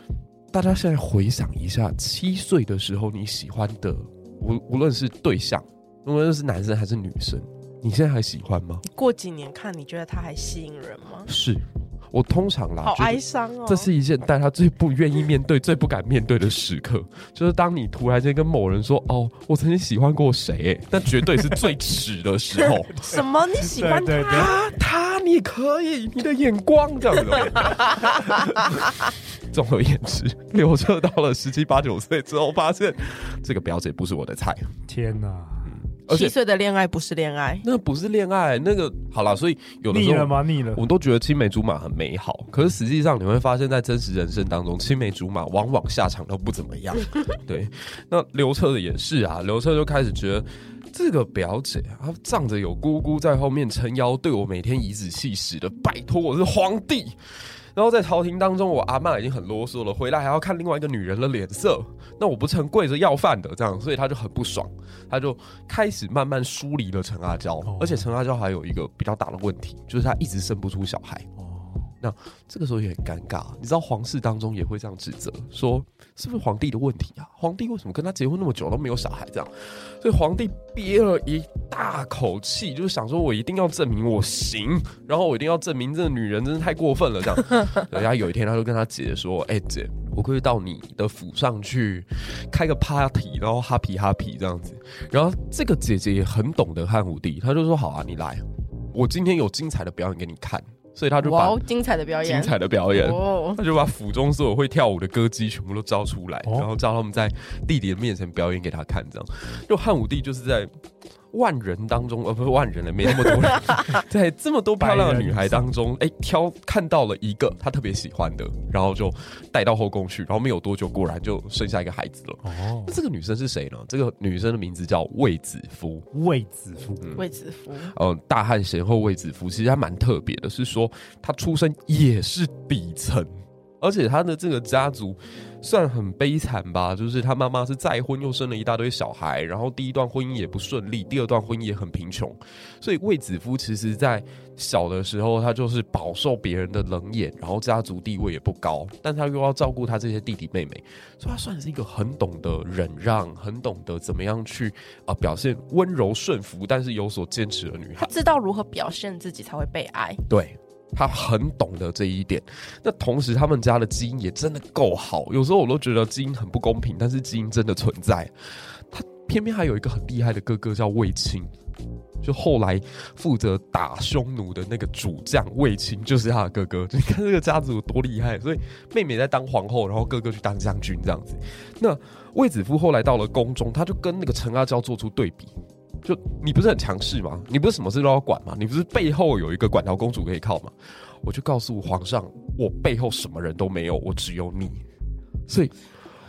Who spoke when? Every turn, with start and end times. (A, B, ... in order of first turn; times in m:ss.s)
0:00.5-0:08.8 A
0:08.8-0:11.3 B
0:11.3-0:23.2 A
0:12.8-0:13.9 B
0:23.0-0:24.5 B
0:23.6-0:24.5 C
0:24.3-0:34.7 A
0:34.9-0:35.7 C
0:35.7-0:36.3 A
0:36.1-0:37.6 B
0:37.6-0:57.2 A
0:39.9-0:40.8 C
0:57.7-1:11.3 A
1:07.7-1:08.1 C
1:11.4-1:11.9 C
1:12.0-1:41.6 A
1:41.2-1:43.6 B
1:42.2-1:50.7 A
1:51.3-2:06.1 A
1:54.8-1:55.7 C
2:02.4-2:03.0 C
2:06.1-2:07.2 C
2:07.2-2:07.9 B
2:07.8-2:38.1 A
2:38.0-2:40.2 B
2:40.3-2:51.5 A
2:52.2-3:14.8 A
3:15.5-3:15.7 A